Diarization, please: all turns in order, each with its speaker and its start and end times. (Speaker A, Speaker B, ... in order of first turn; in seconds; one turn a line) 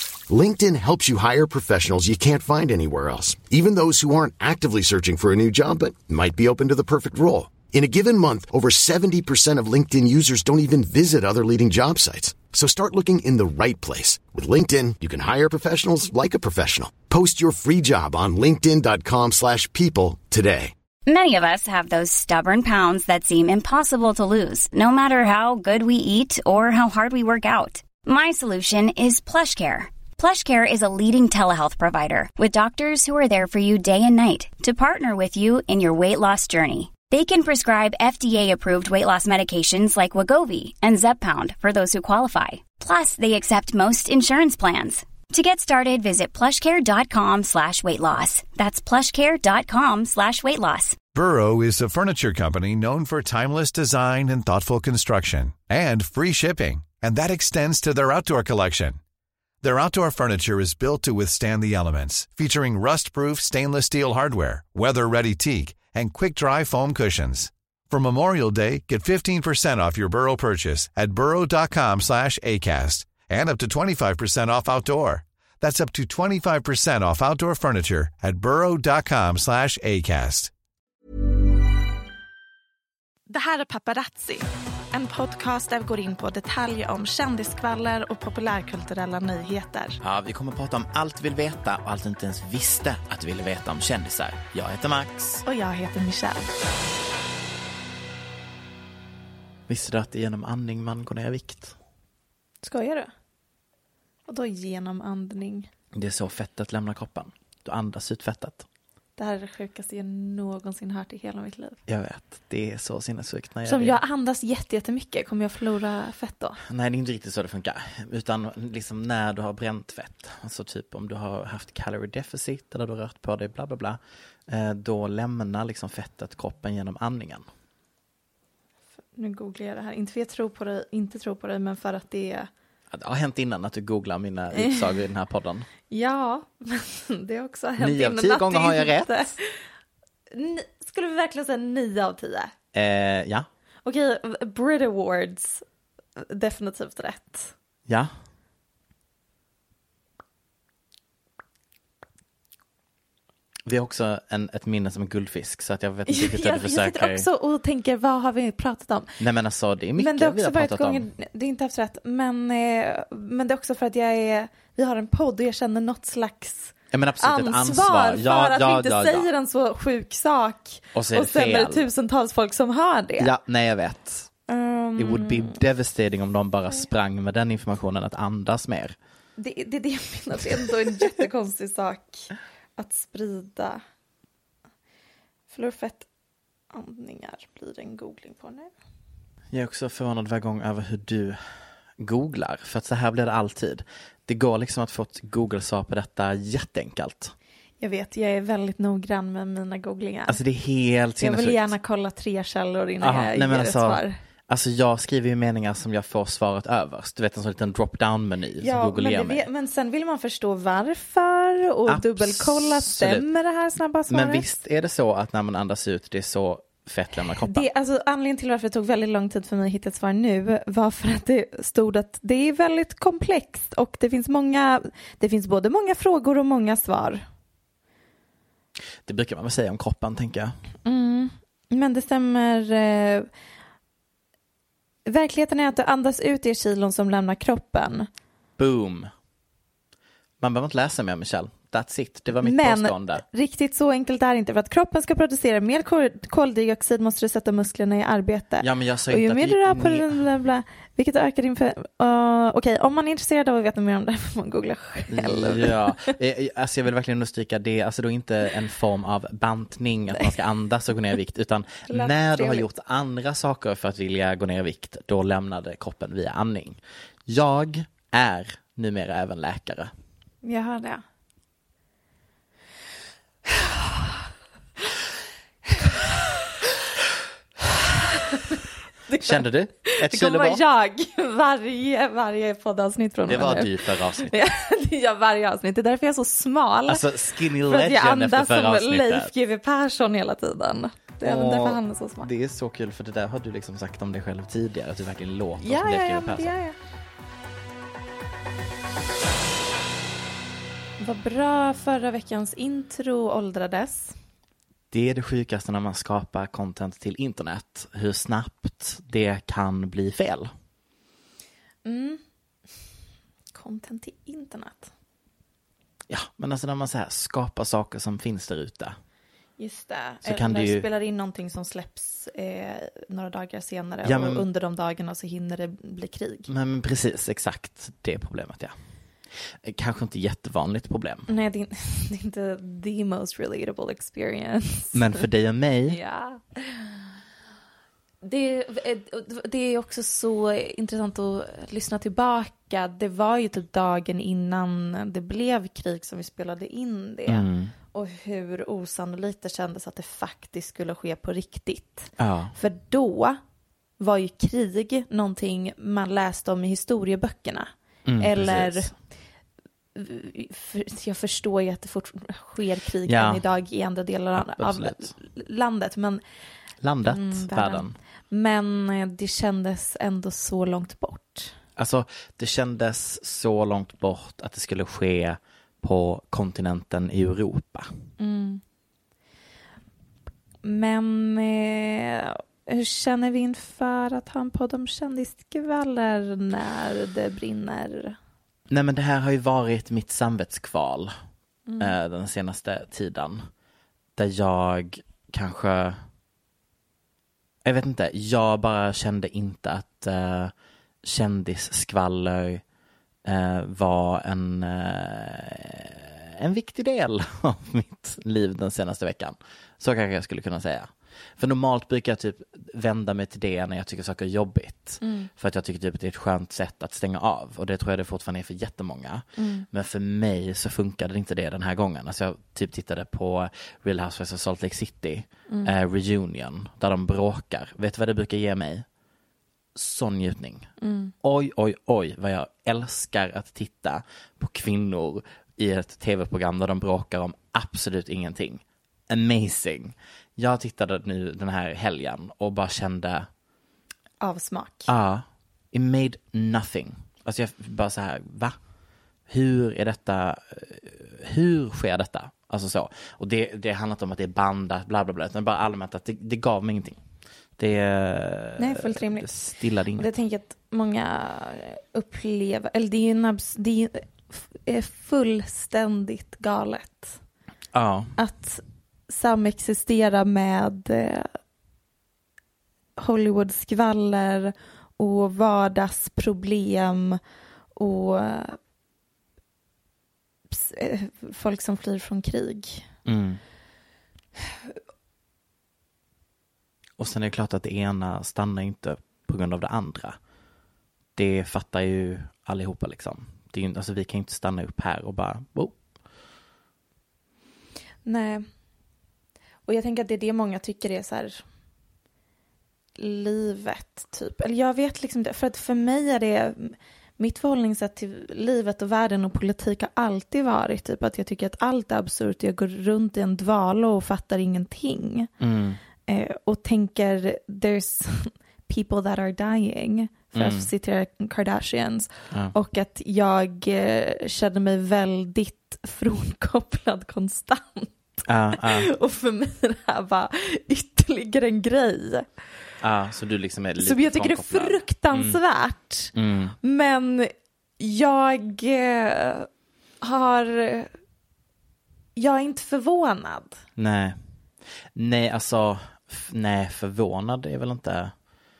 Speaker A: 0.3-20.7
Speaker B: 21.1-51.0
Speaker C: 51.1-59.0
Speaker C: 59.6-80.5
Speaker D: 83.3-90.0
Speaker E: 90.0-95.4
Speaker D: 95.4-96.5
Speaker E: 99.7-101.8
Speaker D: 102.6-103.1
Speaker D: 104.3-105.7
Speaker E: 105.9-108.6
Speaker D: 109.2-111.8
Speaker E: 111.9-114.0
Speaker D: 113.7-116.6
Speaker E: 116.6-127.4
Speaker D: 129.1-132.5
Speaker E: 132.9-135.7
Speaker D: 134.5-135.0
Speaker D: 135.9-139.5
Speaker E: 137.8-139.1
Speaker D: 140.3-142.5
Speaker E: 142.7-143.5
Speaker D: 143.8-145.6
Speaker D: 146.2-147.5
Speaker E: 153.7-157.2
Speaker D: 156.1-159.2
Speaker E: 159.2-161.1
Speaker D: 160.0-173.3
Speaker E: 166.9-169.3
Speaker E: 170.9-171.8
Speaker E: 173.2-174.3
Speaker D: 174.5-175.6
Speaker E: 175.0-178.9
Speaker D: 179.4-183.8
Speaker D: 185.5-186.1
Speaker D: 186.7-188.7
Speaker E: 189.5-191.4
Speaker E: 192.0-197.3
Speaker D: 197.8-200.4
Speaker E: 200.3-201.7
Speaker D: 201.2-204.2
Speaker E: 203.0-209.4
Speaker D: 208.6-214.6
Speaker E: 211.9-213.2
Speaker E: 214.1-217.7
Speaker D: 217.4-227.2
Speaker E: 229.0-230.6
Speaker D: 230.8-233.3
Speaker D: 235.1-238.1
Speaker E: 238.6-239.1
Speaker E: 240.4-243.2
Speaker D: 242.4-256.1
Speaker E: 248.6-250.2
Speaker E: 255.1-269.9
Speaker D: 261.9-262.6
Speaker D: 270.4-271.0
Speaker D: 273.5-274.0
Speaker D: 275.7-276.2
Speaker D: 278.0-278.5
Speaker D: 279.1-292.3
Speaker E: 279.2-280.6
Speaker E: 283.2-284.3
Speaker E: 286.9-289.3
Speaker E: 291.2-296.5
Speaker D: 295.6-296.8
Speaker D: 301.0-304.1
Speaker E: 304.9-310.5
Speaker D: 311.8-312.2
Speaker D: 313.5-314.9
Speaker E: 316.1-319.0
Speaker D: 319.6-326.5
Speaker E: 320.2-320.8
Speaker E: 324.0-324.4
Speaker E: 326.5-328.7
Speaker E: 329.6-331.3
Speaker D: 331.3-335.2
Speaker E: 334.9-336.0
Speaker D: 335.9-337.0
Speaker D: 338.2-353.4
Speaker E: 347.3-347.7
Speaker E: 352.2-352.5
Speaker D: 354.0-358.9
Speaker E: 358.1-358.9
Speaker D: 359.9-366.2
Speaker E: 363.1-363.4
Speaker E: 364.4-365.1
Speaker E: 366.8-368.0
Speaker D: 367.1-371.6
Speaker E: 371.8-377.9
Speaker D: 378.2-378.6
Speaker D: 380.6-388.2
Speaker E: 388.7-391.1
Speaker D: 391.7-391.9
Speaker E: 391.8-393.4
Speaker E: 394.1-396.0
Speaker E: 397.6-400.5
Speaker E: 401.0-402.6
Speaker E: 403.2-428.9
Speaker D: 415.0-415.3
Speaker D: 419.4-419.7
Speaker D: 425.5-425.7
Speaker E: 429.7-430.7
Speaker D: 430.8-431.1
Speaker E: 431.2-443.3
Speaker D: 444.2-444.9
Speaker E: 444.9-448.6
Speaker E: 449.3-457.0
Speaker E: 457.6-460.1
Speaker D: 458.6-467.2
Speaker E: 467.7-468.1
Speaker D: 468.2-471.3
Speaker D: 473.0-477.2
Speaker D: 477.8-478.6
Speaker D: 480.5-482.9
Speaker E: 483.1-483.4
Speaker E: 487.0-490.2
Speaker E: 491.1-495.8
Speaker D: 498.0-498.5
Speaker D: 499.7-501.4
Speaker D: 503.0-515.3
Speaker E: 515.4-515.8
Speaker D: 516.1-532.2
Speaker E: 520.3-520.7
Speaker E: 528.3-528.9
Speaker E: 532.8-535.4
Speaker D: 533.8-539.5
Speaker E: 536.1-536.5
Speaker D: 540.0-540.9
Speaker D: 542.1-543.6
Speaker E: 543.8-544.2
Speaker E: 544.9-548.1